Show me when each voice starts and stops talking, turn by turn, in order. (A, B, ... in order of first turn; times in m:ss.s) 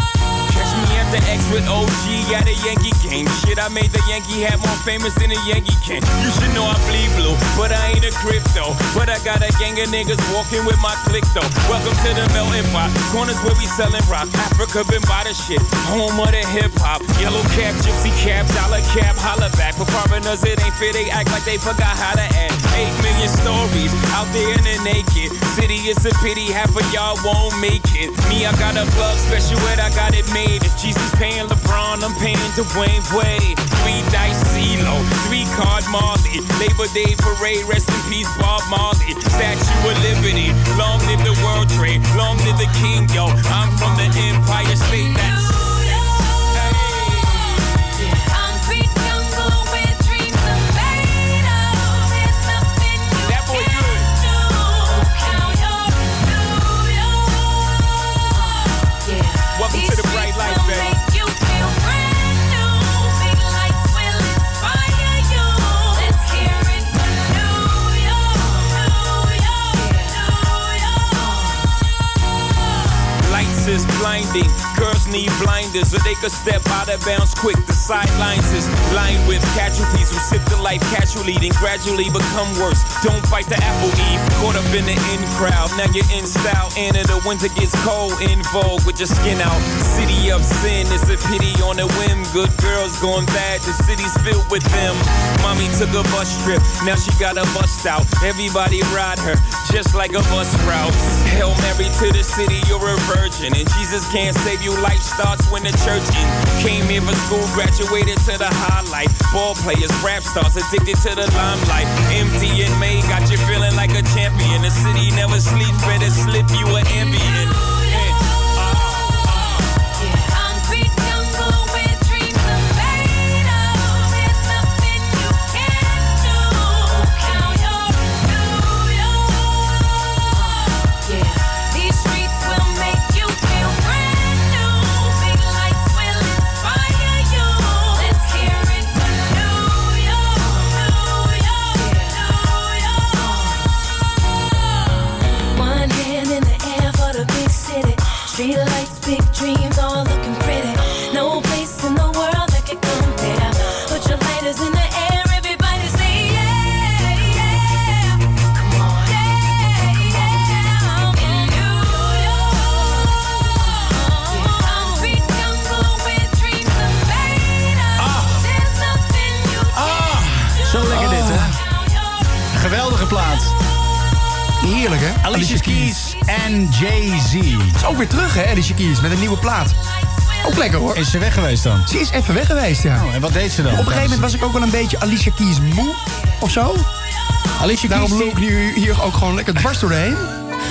0:00.5-0:47.8 A
0:45.5-0:46.5 B
0:47.4-1:11.7 B
0:53.2-0:54.1 A
0:59.5-1:00.9 A
1:13.2-1:59.8 A
1:57.7-1:58.2 B
1:59.9-2:23.7 B
2:24.7-2:52.5 B
2:48.0-2:48.4 C
2:49.7-2:51.6 C
2:50.9-2:51.6 D
2:52.5-2:53.5 C
2:54.6-2:56.0 D
2:55.2-2:57.8 C
2:56.1-2:57.4 B
2:57.8-2:59.8 D
2:59.9-3:00.8 B
3:00.4-3:01.0 D
3:00.9-3:01.9 C
3:01.8-3:03.1 D
3:02.9-3:04.3 C
3:03.7-3:06.9 D
3:07.6-3:08.4 C
3:07.8-3:10.3 D